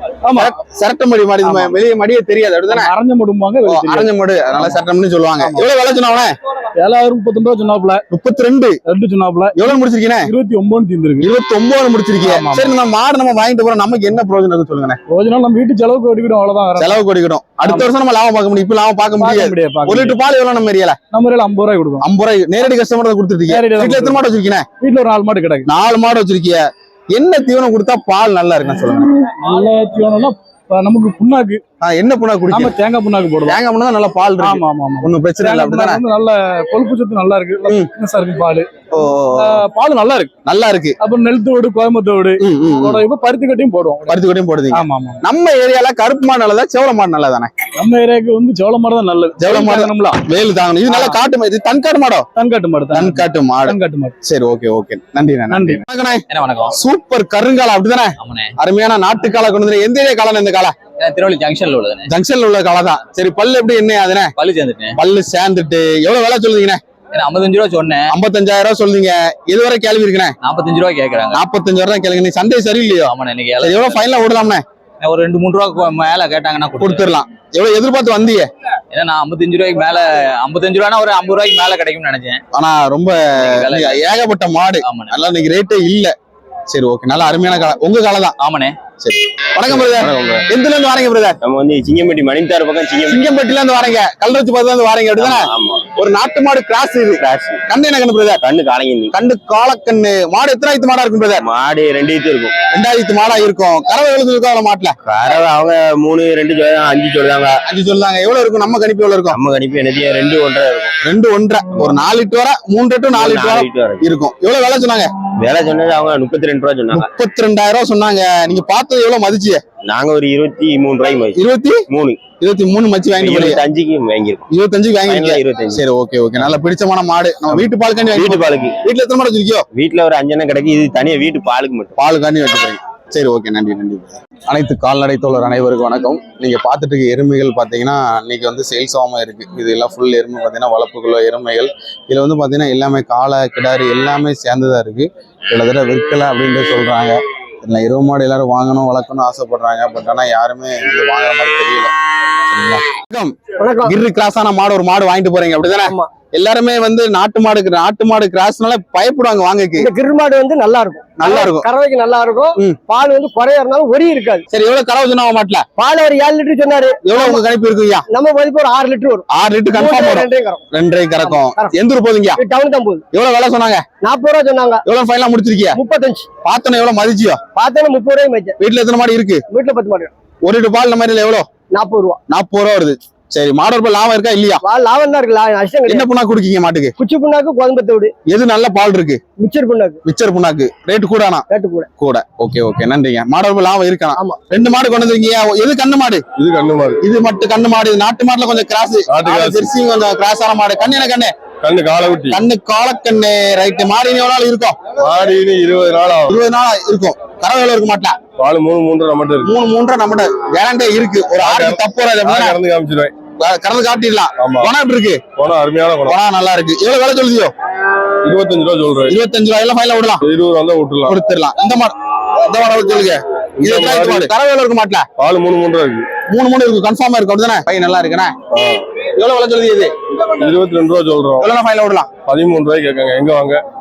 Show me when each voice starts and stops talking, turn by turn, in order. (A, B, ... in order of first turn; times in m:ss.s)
0:00.2-0:00.5 A
0:00.3-0:02.9 B
0:01.4-0:01.8 A
0:02.7-0:04.7 A
0:03.6-0:06.3 B
0:05.4-0:05.7 A
0:06.8-0:08.0 A
0:08.1-0:08.8 B
0:08.9-0:09.7 A
0:09.5-0:10.3 B
0:10.2-0:11.3 A
0:11.2-0:15.0 B
0:12.2-0:12.7 A
0:15.1-0:17.0 A
0:16.8-0:21.0 B
0:17.6-0:17.9 A
0:19.2-0:20.2 A
0:21.1-0:22.0 A
0:22.0-0:24.6 B
0:23.5-0:24.2 A
0:24.8-0:25.7 A
0:25.6-0:29.1 B
0:29.2-0:31.6 A
0:31.8-0:32.7 B
0:32.5-0:33.6 A
0:33.4-0:36.0 B
0:34.4-0:38.7 A
0:38.9-0:39.6 B
0:39.4-0:40.3 A
0:40.4-0:41.0 B
0:41.0-0:44.2 A
0:42.4-0:43.0 B
0:44.1-0:47.5 B
0:44.7-0:45.2 A
0:47.8-0:50.2 A
0:49.4-0:52.3 B
0:50.9-0:51.2 A
0:52.4-0:54.1 A
0:52.9-1:00.7 B
0:55.5-0:55.8 A
0:56.3-0:56.7 C
0:58.2-0:58.5 C
1:01.0-1:02.1 C
1:02.1-1:04.3 B
1:04.4-1:05.0 C
1:05.0-1:06.8 B
1:07.1-1:08.1 C
1:08.1-1:10.3 B
1:10.4-1:11.4 C
1:11.3-1:14.6 B
1:13.1-1:14.0 C
1:15.0-1:17.1 C
1:16.8-1:18.5 B
1:18.9-1:22.4 C
1:22.5-1:26.1 B
1:23.4-1:24.0 C
1:24.8-1:25.2 C
1:26.7-1:28.4 B
1:28.4-1:28.7 C
1:29.0-1:31.4 B
1:29.7-1:30.4 D
1:31.4-1:33.2 D
1:33.0-1:38.4 B
1:35.2-1:35.8 D
1:37.2-1:37.6 D
1:38.4-1:39.1 D
1:39.1-1:41.5 B
1:41.4-1:42.5 D
1:42.7-1:45.0 B
1:45.0-1:47.6 D
1:47.6-1:49.4 B
1:49.3-1:50.9 D
1:51.0-1:55.1 B
1:53.2-1:54.0 D
1:55.4-1:57.0 D
1:56.9-1:59.6 B
1:59.8-2:01.4 D
2:01.3-2:01.8 B
2:01.9-2:02.2 D
2:02.4-2:03.6 B
2:03.2-2:04.4 D
2:04.5-2:09.7 B
2:05.0-2:05.8 D
2:08.2-2:08.8 D
2:09.8-2:11.9 D
2:12.0-2:31.9 B
2:32.5-2:39.9 B
2:33.6-2:33.9 E
2:35.8-2:36.1 E
2:39.8-2:44.4 E
2:41.2-2:41.7 B
2:44.5-2:45.7 B
2:45.8-2:47.4 E
2:47.0-2:48.0 B
2:48.1-2:50.6 E
2:49.3-2:52.4 B
2:51.2-2:51.8 E
2:52.4-2:53.0 E
2:53.1-2:53.8 B
2:54.0-2:54.8 E
2:54.8-2:55.8 B
2:55.8-2:56.3 E
2:56.4-2:57.4 B
2:57.6-2:58.6 E
2:58.6-2:59.4 B
2:59.5-3:00.1 E
3:00.4-3:01.4 B
3:01.7-3:02.2 E
3:02.3-3:04.6 B
3:04.6-3:06.1 E
3:05.8-3:06.9 B
3:07.0-3:08.1 E
3:08.3-3:09.2 B
3:09.4-3:10.0 E
3:10.0-3:11.4 B
3:11.5-3:11.9 E
3:12.0-3:16.2 B
3:16.4-3:17.0 F
3:17.0-3:21.3 B
3:19.1-3:19.7 F
3:21.6-3:22.4 F
3:22.3-3:24.8 B
3:25.0-3:26.4 F
3:26.3-3:28.2 B
3:28.4-3:29.5 F
3:29.4-3:32.6 B
3:31.4-3:33.1 F
3:33.4-3:35.2 B
3:34.4-3:34.7 F
3:35.4-3:36.2 F
3:36.1-3:37.5 B
3:38.2-3:39.1 F
3:39.1-3:40.2 B
3:40.2-3:41.1 F
3:41.1-3:45.1 B
3:43.6-3:44.3 F
3:45.2-3:46.1 F
3:46.3-3:48.3 B
3:48.5-3:48.8 F
3:49.2-3:49.9 B
3:50.4-3:51.5 F
3:51.4-3:52.1 B
3:52.3-3:53.6 F